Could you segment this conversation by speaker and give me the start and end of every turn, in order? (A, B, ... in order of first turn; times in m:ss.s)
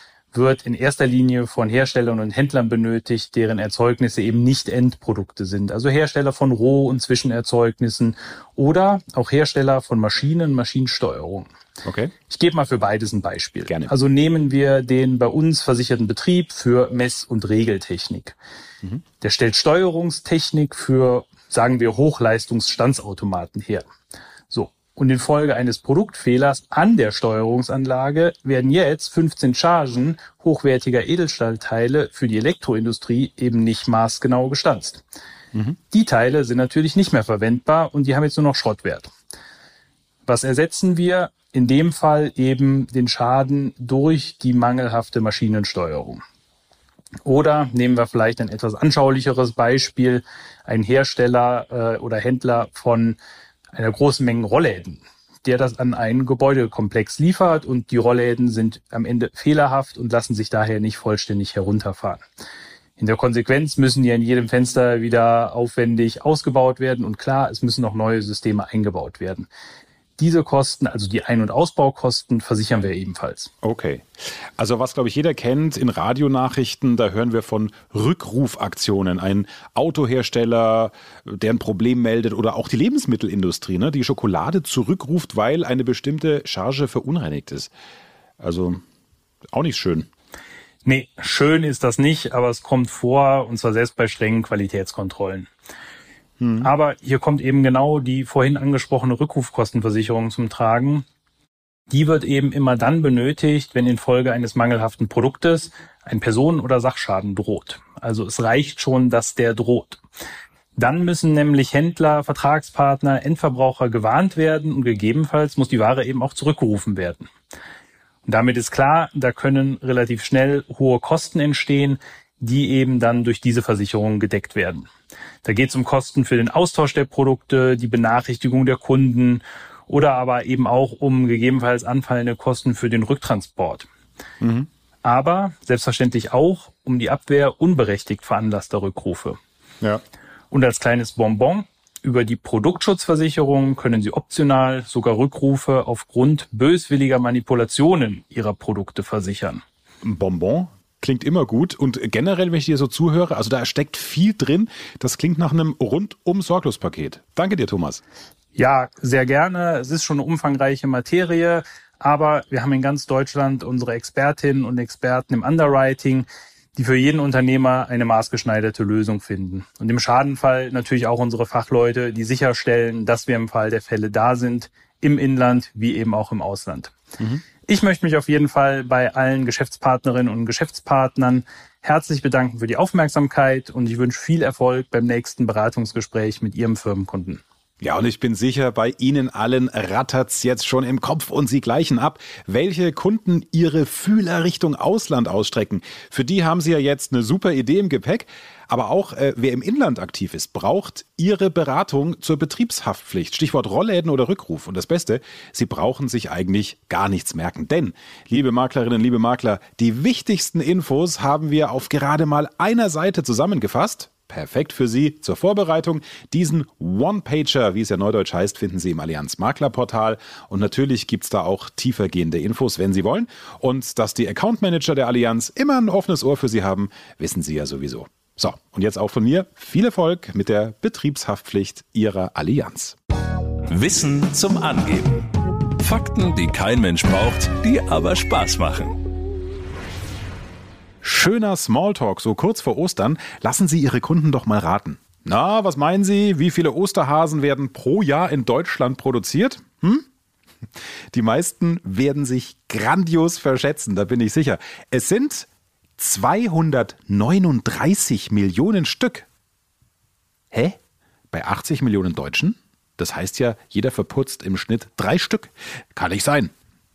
0:00.3-0:11.5 A
0:11.8-0:12.1 B
0:12.3-0:18.4 A
0:13.7-0:13.9 B
0:19.2-0:23.9 A
0:24.5-0:35.0 A
0:35.9-0:39.1 A
0:40.3-0:46.2 A
0:47.2-0:53.2 A
0:53.7-1:02.2 A
1:03.0-1:09.5 A
1:10.2-1:13.5 A
1:13.6-1:14.1 B
1:14.6-1:27.7 B
1:28.4-1:28.8 B
1:29.5-1:30.1 B
1:30.8-1:35.5 A
1:36.4-1:36.7 B
1:36.6-1:41.0 A
1:41.9-1:50.0 A
1:50.8-1:57.3 A
1:58.2-2:04.9 A
2:05.4-2:13.9 A
2:14.4-2:14.7 B
2:15.0-2:19.4 A
2:20.5-2:29.6 A
2:30.0-2:38.0 B
2:38.5-2:56.9 A
2:57.7-3:07.4 A
3:07.8-3:53.0 B
3:53.7-3:58.9 C
4:01.0-4:10.0 B
4:11.1-4:19.2 B
4:20.5-4:20.8 B
4:21.3-4:26.5 B